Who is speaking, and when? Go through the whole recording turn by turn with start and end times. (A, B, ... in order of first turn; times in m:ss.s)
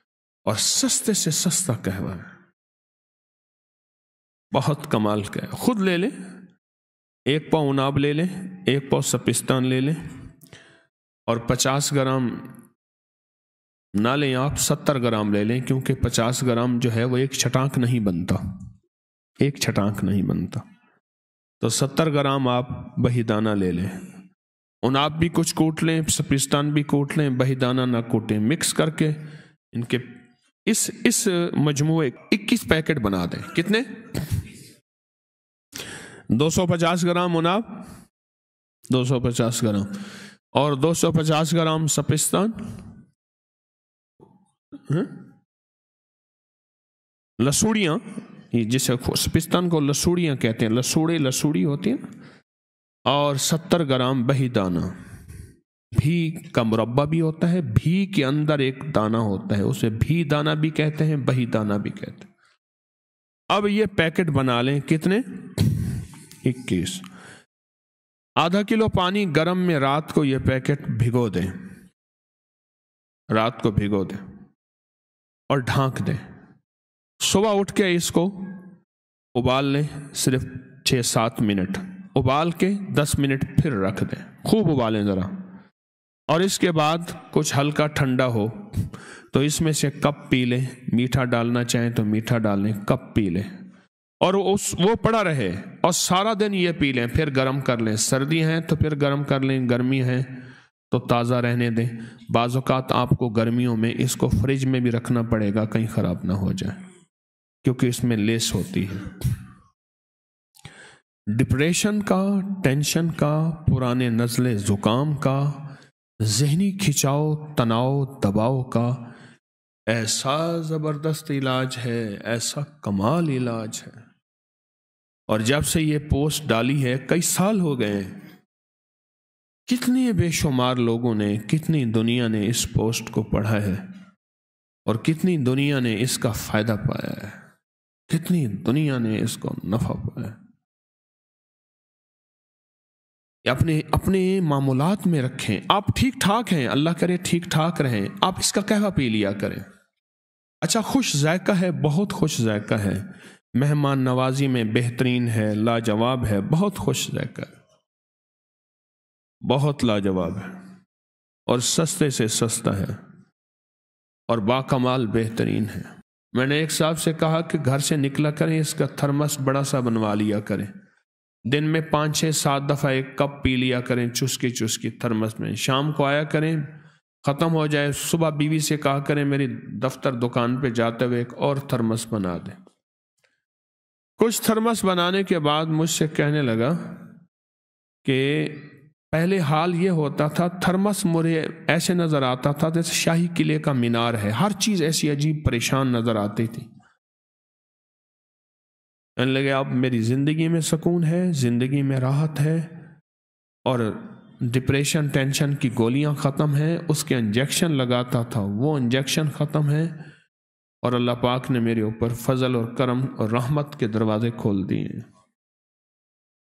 0:00.4-0:02.3 A
0:04.5-0:06.1 A
0:07.3-0:10.0 A
0:11.3-0:12.5 A
0:14.0-0:18.4 A
0:19.4-0:20.6 A
0:21.6-0:24.0 A
0:24.8-0:29.2 A
0:29.7-0:30.1 A
0:30.6-0:34.4 A
0:36.3-0:37.8 A
0:38.9-0:40.0 A
0:40.5-0:42.6 A
0:44.9-0:45.2 A
0:47.4-0:52.0 A
0:53.1-0:54.9 A
0:55.9-1:02.3 A
1:03.5-1:07.0 A
1:08.4-1:11.5 A
1:13.3-1:14.2 A
1:15.5-1:16.2 A
1:17.2-1:18.6 A
1:19.3-1:25.4 A
1:26.3-1:33.5 A
1:34.2-1:46.8 A
1:47.6-1:49.4 A
1:51.3-1:59.1 A
1:59.9-2:04.0 A
2:05.3-2:08.2 A
2:09.7-2:13.8 A
2:14.8-2:17.4 A
2:18.1-2:20.4 A
2:23.4-2:29.6 A
2:30.6-2:37.5 A
2:39.4-2:40.5 A
2:41.5-2:43.0 A
2:44.3-2:50.7 A
2:51.5-3:02.6 A
3:04.2-3:07.0 A
3:08.0-3:16.7 A
3:19.2-3:22.8 A
3:23.6-3:30.0 A
3:30.8-3:35.1 A